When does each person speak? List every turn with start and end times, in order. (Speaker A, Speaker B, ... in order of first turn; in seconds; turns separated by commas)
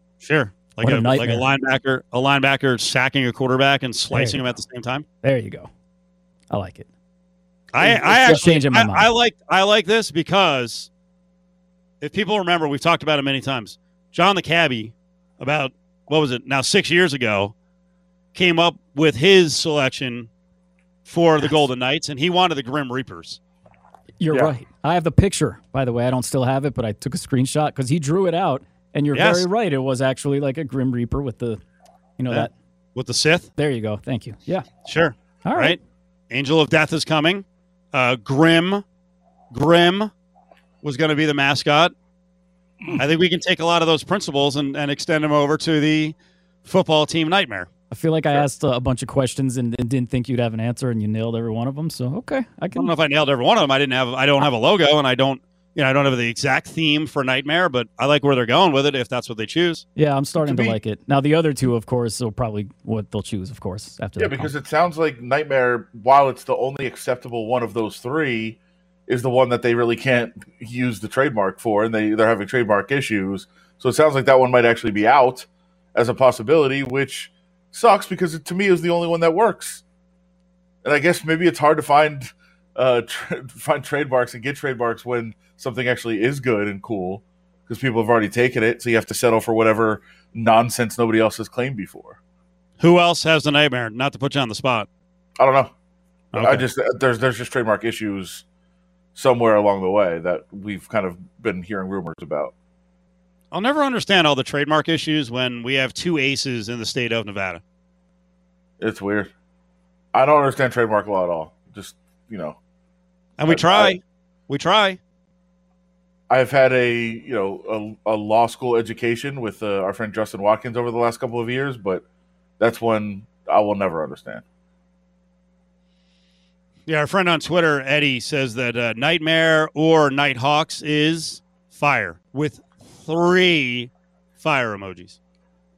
Speaker A: 0.2-5.1, Speaker B: 0.8-1.5, Speaker B: 4.1-4.4, Speaker B: 5.2-5.7, Speaker B: 6.5-6.9, Speaker A: 7.7-10.9, Speaker B: 7.8-9.1, Speaker A: 12.0-17.5, Speaker A: 18.3-20.3, Speaker A: 21.1-23.4, Speaker B: 24.2-31.6, Speaker A: 29.1-29.4, Speaker B: 32.2-32.5, Speaker A: 32.3-33.5, Speaker B: 33.6-34.7, Speaker A: 34.8-35.8, Speaker B: 35.5-35.8, Speaker A: 36.3-38.8, Speaker A: 39.5-40.1, Speaker A: 40.8-41.9, Speaker A: 42.9-47.7, Speaker B: 47.9-52.9, Speaker A: 52.8-59.9, Speaker B: 60.0-64.5, Speaker C: 60.4-60.8, Speaker C: 64.2-79.8, Speaker C: 80.8-92.2, Speaker A: 92.8-94.9, Speaker C: 95.4-95.7, Speaker A: 96.3-96.7, Speaker C: 96.3-98.4, Speaker C: 99.2-102.5, Speaker A: 103.5-107.6, Speaker C: 108.8-109.3, Speaker C: 110.1-112.6, Speaker A: 113.4-115.0, Speaker C: 113.5-114.0, Speaker C: 116.3-122.0, Speaker C: 122.6-124.4, Speaker A: 126.9-135.2